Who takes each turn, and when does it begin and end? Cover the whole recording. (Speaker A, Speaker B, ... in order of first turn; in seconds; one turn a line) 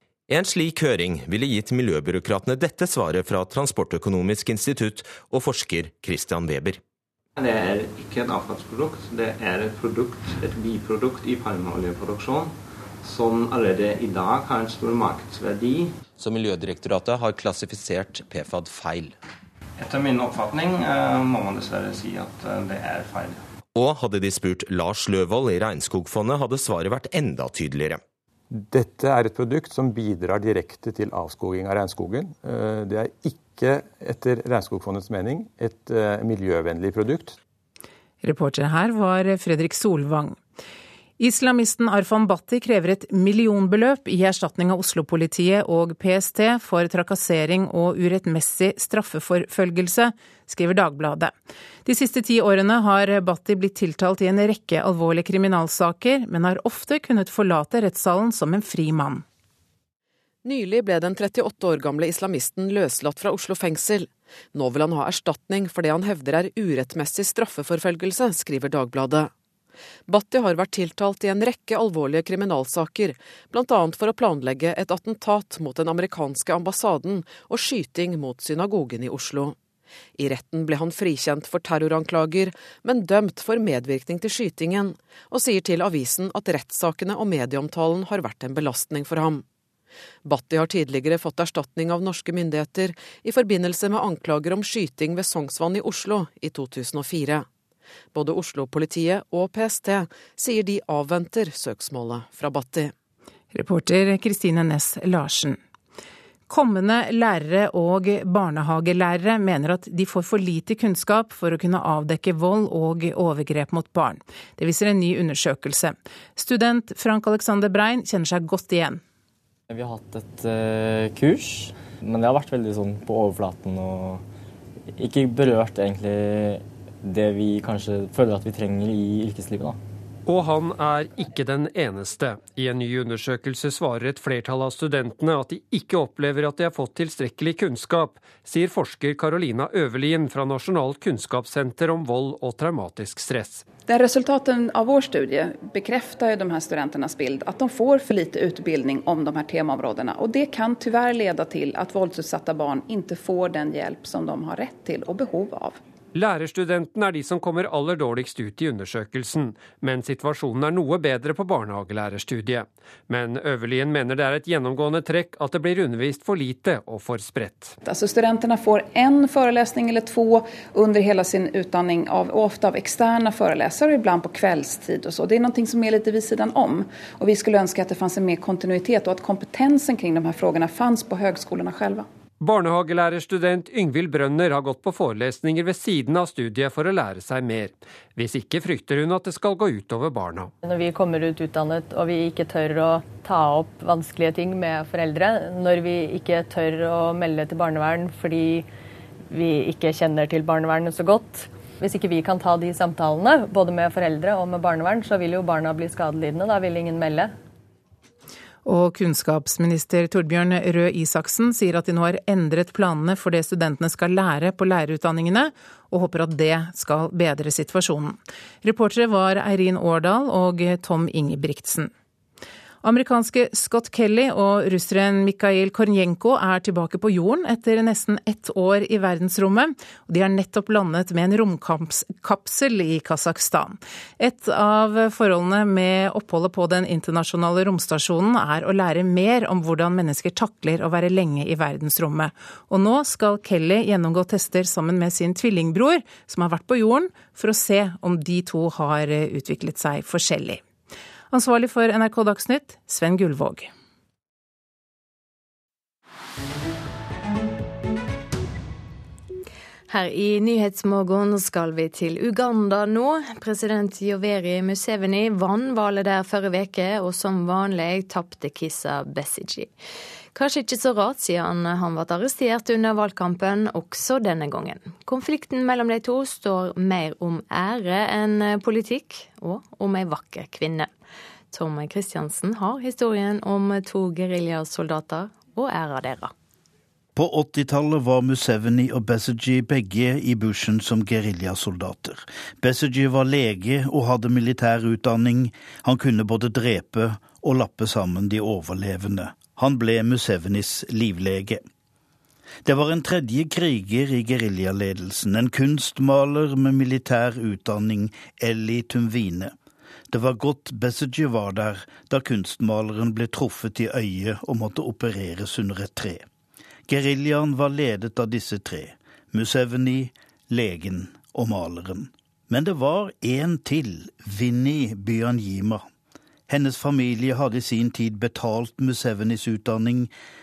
Speaker A: 0.3-6.8
Speaker B: 7.4-15.9
Speaker C: 16.2-19.1
Speaker B: 19.8-23.4
Speaker A: 23.7-28.0
Speaker D: 28.5-37.4
Speaker E: 38.2-40.4
Speaker E: 41.2-51.3
Speaker E: 51.9-59.2
Speaker B: 62.1-64.0
Speaker F: 63.6-63.9
Speaker B: 64.6-69.0
Speaker F: 66.9-67.2
Speaker B: 70.1-79.3
Speaker B: 80.2-89.2
Speaker B: 90.3-97.2
Speaker B: 98.2-99.9
Speaker B: 100.4-102.8
Speaker E: 103.5-105.6
Speaker E: 106.5-119.0
Speaker G: 119.7-124.2
Speaker G: 125.0-129.8
Speaker F: 130.3-143.6
Speaker H: 143.9-155.8
Speaker F: 156.2-167.7
Speaker H: 167.8-182.1
Speaker F: 182.4-190.5
Speaker I: 190.6-198.7
Speaker I: 199.3-207.3
Speaker E: 208.6-221.9
Speaker E: 222.8-250.6
Speaker E: 251.3-253.7
Speaker J: 259.9-269.7
Speaker J: 270.3-280.9
Speaker J: 281.5-286.3
Speaker K: 287.2-301.6
Speaker K: 302.6-309.5
Speaker K: 310.1-316.3
Speaker K: 316.9-325.9
Speaker K: 326.5-330.1